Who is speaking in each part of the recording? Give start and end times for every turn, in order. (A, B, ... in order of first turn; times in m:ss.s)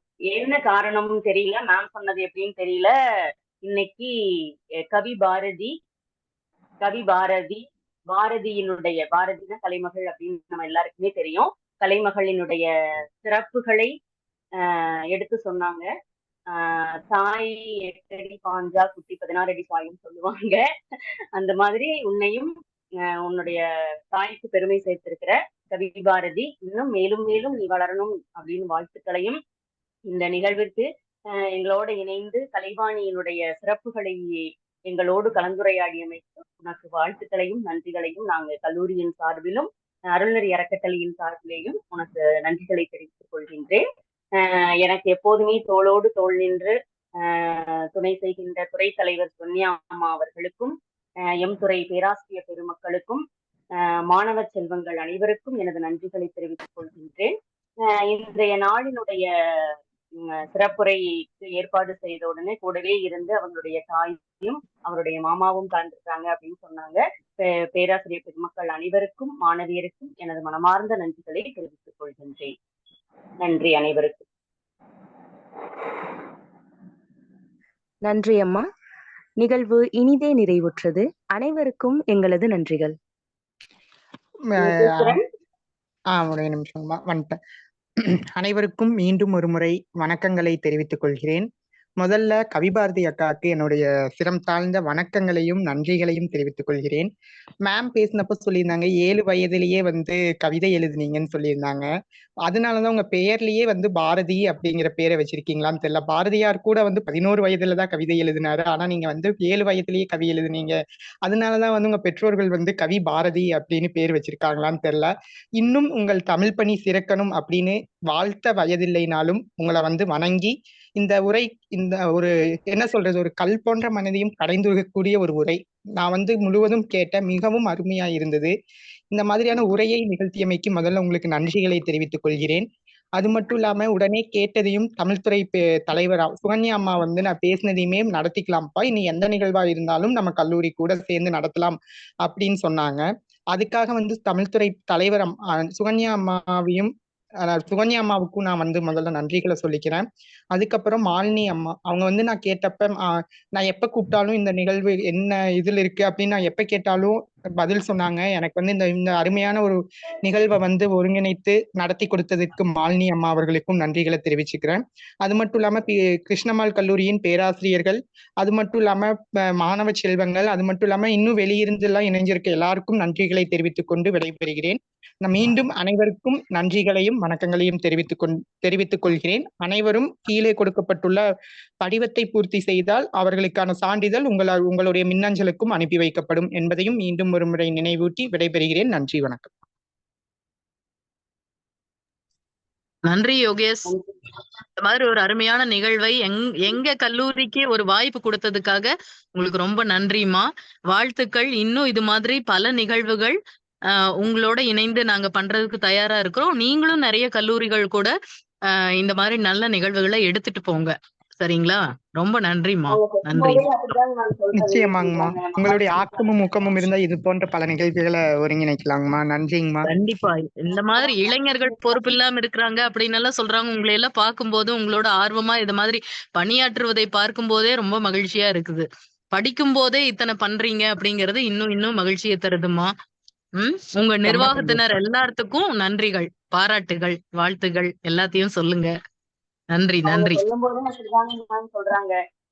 0:00.3-0:02.9 A
0:03.6-0:04.1 A
0:04.8-0:05.7 A
0:06.8-0:12.7 A
0:13.2-0:13.9 A
0:14.6-0:15.9 A
0:16.5-0:20.6 A
0:21.3-0:29.4 A
0:30.1-0:43.8 A
0:44.4-0:50.8 A
0:51.4-0:53.2 A
0:53.8-0:57.3 A
0:57.8-1:12.5 A
1:13.4-1:14.2 A
1:18.0-1:18.7 B
1:19.4-1:23.0 B
1:24.5-1:25.2 C
1:24.6-1:25.2 A
1:26.1-1:27.4 C
1:28.0-1:31.5 C
1:32.0-1:37.1 C
1:37.6-1:41.9 C
1:42.4-2:08.5 C
2:09.1-2:26.9 C
2:27.4-3:01.2 C
3:01.8-3:09.5 C
3:13.0-3:13.9 D
3:14.8-3:23.4 D
3:23.9-3:28.1 D
3:28.7-3:33.7 D
3:32.9-3:36.7 A
3:34.6-3:39.9 C
3:39.8-3:52.9 D
3:40.7-3:42.1 A
3:53.6-3:58.9 D
3:54.2-3:54.8 A
3:59.7-4:00.4 D
4:00.0-4:02.2 A